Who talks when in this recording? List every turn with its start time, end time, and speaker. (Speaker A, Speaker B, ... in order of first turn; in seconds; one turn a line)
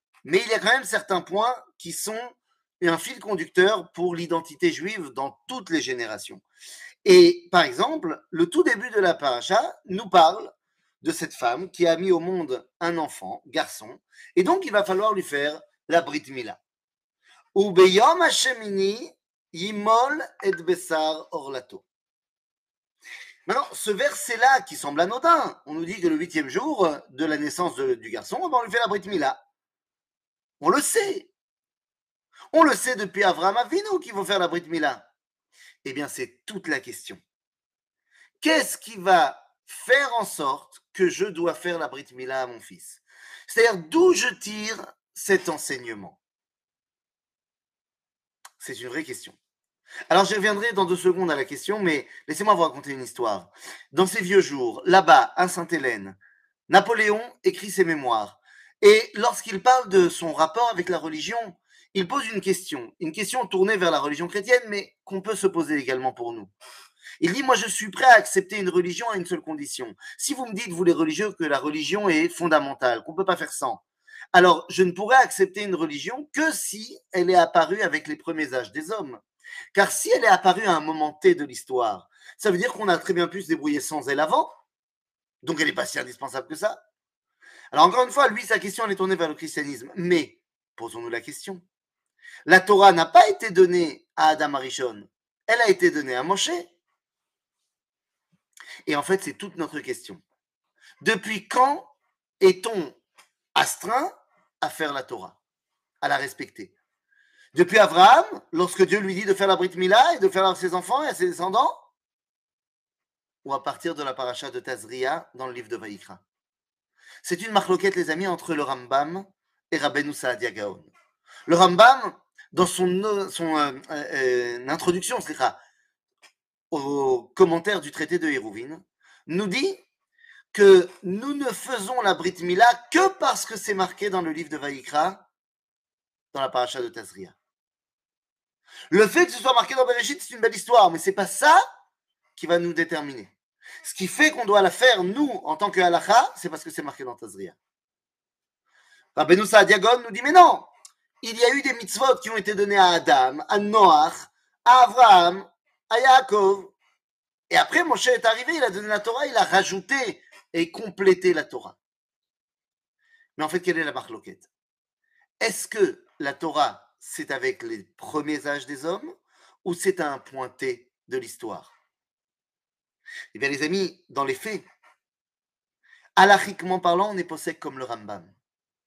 Speaker A: 0.2-6.4
Speaker A: 7.0-16.6
Speaker A: 17.5-21.9
Speaker A: 23.5-29.4
Speaker A: 30.6-31.3
Speaker A: 32.5-35.1
Speaker A: 35.8-37.2
Speaker A: 38.4-46.2
Speaker A: 48.6-49.4
Speaker A: 50.1-56.2
Speaker A: 56.7-66.5
Speaker A: 67.2-73.8
Speaker A: 74.3-79.2
Speaker A: 79.7-84.5
Speaker A: 85.4-86.8
Speaker A: 87.7-91.6
Speaker A: 92.5-96.7
Speaker A: 98.8-100.2
Speaker A: 101.0-101.9
Speaker A: 102.4-103.0
Speaker A: 103.5-105.4
Speaker A: 106.0-106.7
Speaker A: 107.5-111.8
Speaker A: 113.4-116.2
Speaker A: 117.2-120.9
Speaker A: 121.5-125.6
Speaker A: 126.7-129.8
Speaker A: 130.5-135.2
Speaker A: 136.3-137.3
Speaker A: 138.9-141.6
Speaker A: 142.3-143.3
Speaker A: 143.8-147.6
Speaker A: 149.1-150.7
Speaker A: 151.2-156.8
Speaker A: 157.5-161.8
Speaker A: 163.4-164.5
Speaker A: 165.4-169.1
Speaker A: 169.6-171.7
Speaker A: 173.3-174.6
Speaker A: 176.2-178.3